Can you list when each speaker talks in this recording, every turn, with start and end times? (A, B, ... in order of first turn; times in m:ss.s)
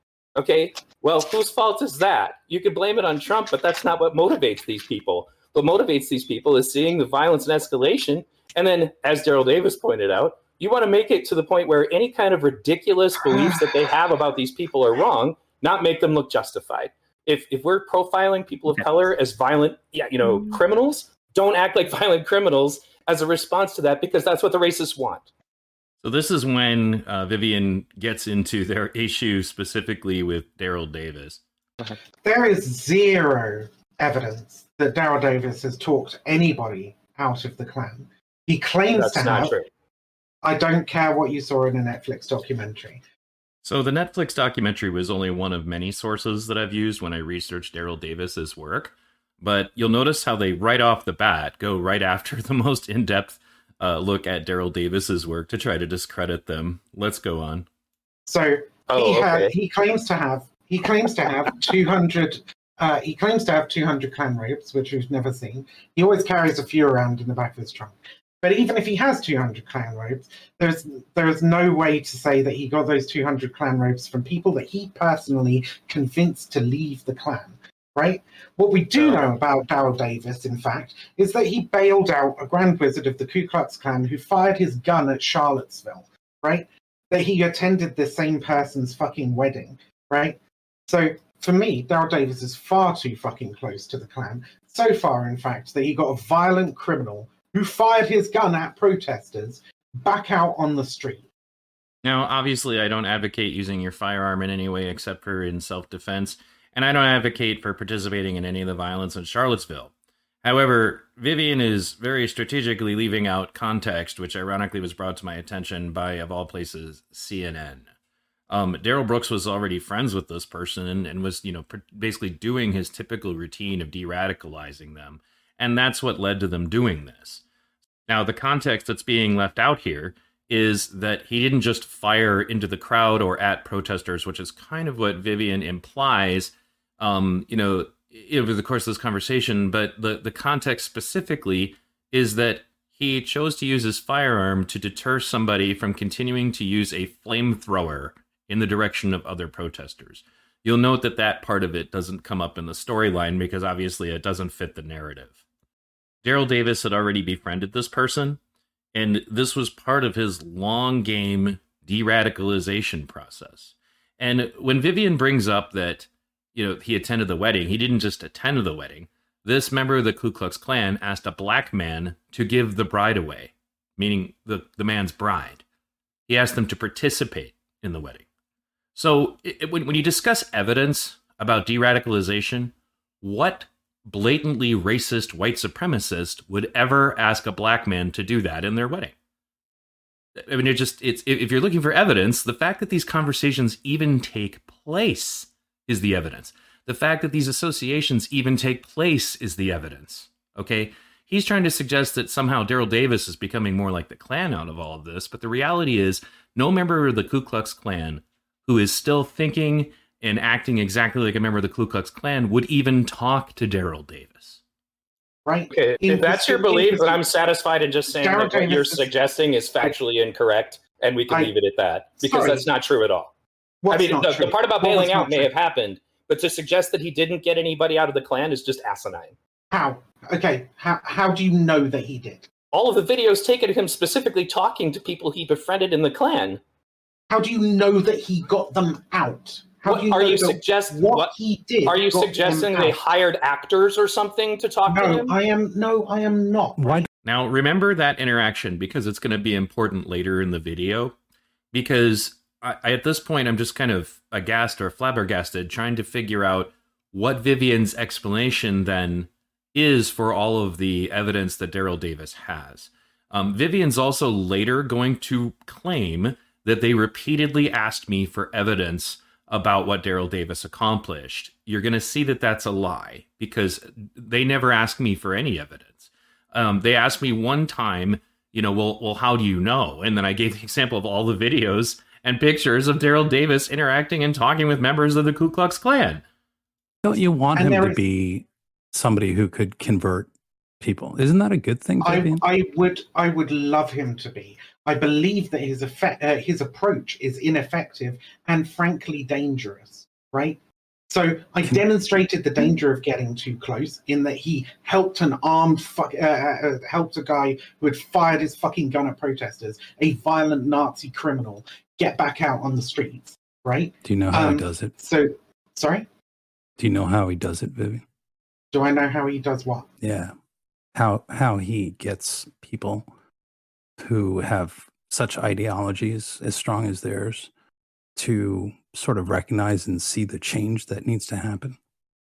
0:00.4-0:25.3 A
0:13.3-0:13.7 B
0:26.0-0:31.4 C
0:32.2-0:39.6 B
0:38.9-0:39.7 A
0:40.4-0:43.0 B
0:43.6-0:57.7 C
0:58.2-1:41.3 B
0:58.9-0:59.5 A
1:19.0-1:19.2 A
1:42.0-1:49.9 C
1:50.4-1:57.8 C
1:58.5-2:07.4 C
2:08.1-2:35.4 C
2:36.2-2:38.4 C
2:38.9-2:55.6 C
2:56.3-2:58.2 C
2:58.9-3:09.1 C
3:10.4-3:34.6 C
3:35.4-3:37.2 B
3:35.7-3:43.3 A
3:38.1-3:39.1 B
3:42.2-3:42.7 B
3:43.8-3:45.5 B
3:43.9-3:49.3 A
3:49.7-3:52.5 B
3:52.7-3:56.6 A
3:57.3-4:03.0 B
3:59.8-4:01.3 A
4:01.8-4:05.3 A
4:04.9-4:07.1 B
4:06.8-4:07.1 D
4:07.2-4:11.1 C
4:11.7-4:46.2 C
4:47.0-4:52.4 D
4:47.5-4:48.0 B
4:52.0-5:16.1 B
5:14.0-5:14.9 D
5:16.8-5:18.0 D
5:18.7-5:19.9 B
5:20.0-5:20.3 D
5:20.9-5:23.1 D
5:24.0-5:27.5 D
5:28.2-5:31.8 D